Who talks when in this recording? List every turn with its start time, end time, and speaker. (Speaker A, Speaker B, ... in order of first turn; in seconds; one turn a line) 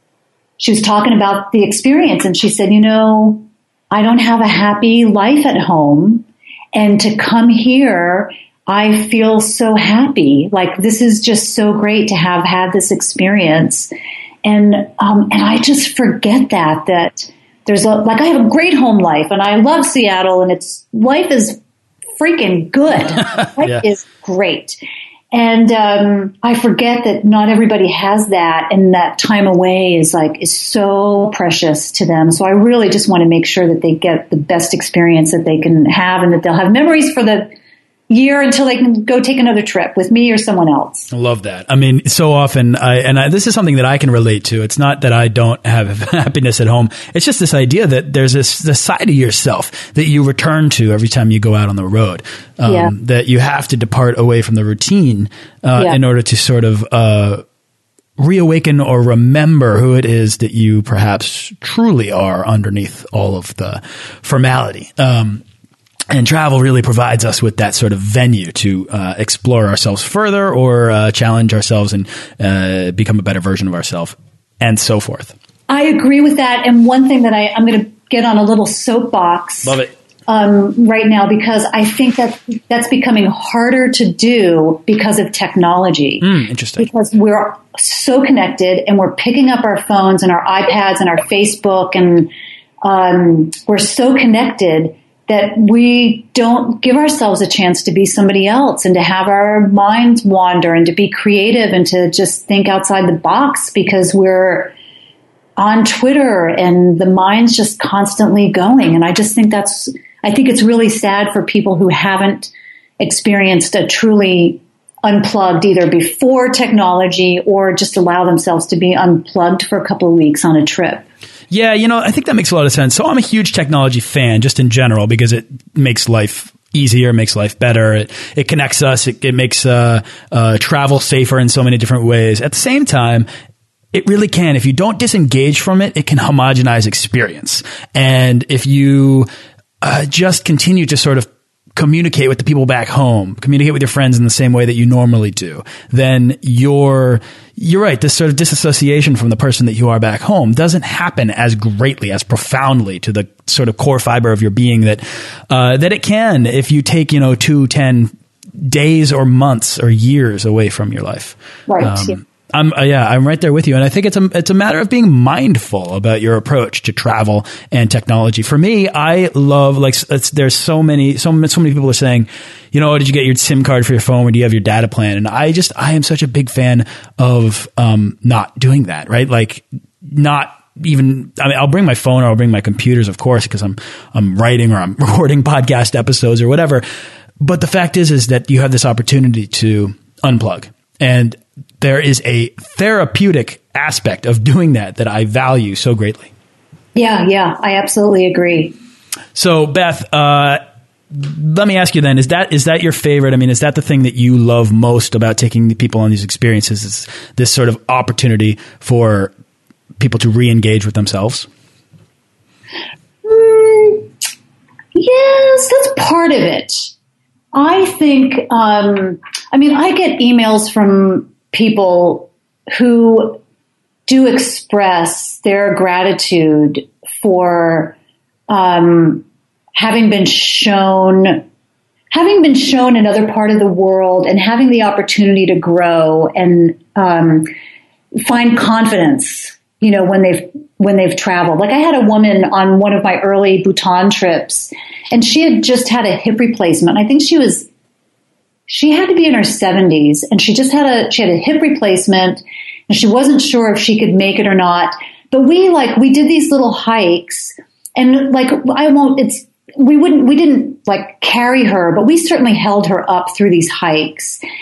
Speaker A: 0.6-13.9
Speaker A: 14.4-21.6
Speaker A: 22.2-24.8
Speaker A: 25.3-37.5
Speaker A: 38.1-41.1
Speaker B: 41.1-57.4
Speaker A: 52.6-52.9
Speaker B: 58.2-65.4
Speaker B: 66.1-75.3
Speaker A: 75.7-92.3
Speaker B: 79.6-79.9
Speaker B: 86.2-86.9
Speaker A: 92.8-104.7
Speaker A: 105.6-121.0
Speaker B: 121.5-133.3
Speaker B: 133.9-139.3
Speaker B: 139.8-158.1
Speaker B: 158.6-186.8
Speaker A: 161.7-162.2
Speaker B: 187.4-196.3
Speaker A: 196.9-198.8
Speaker B: 199.3-200.6
Speaker B: 201.1-209.3
Speaker B: 210.0-211.5
Speaker A: 213.2-214.1
Speaker A: 214.9-216.9
Speaker A: 217.5-223.4
Speaker A: 224.1-227.9
Speaker A: 228.5-229.2
Speaker A: 229.8-231.4
Speaker A: 232.1-237.5
Speaker A: 238.2-247.7
Speaker A: 248.7-264.4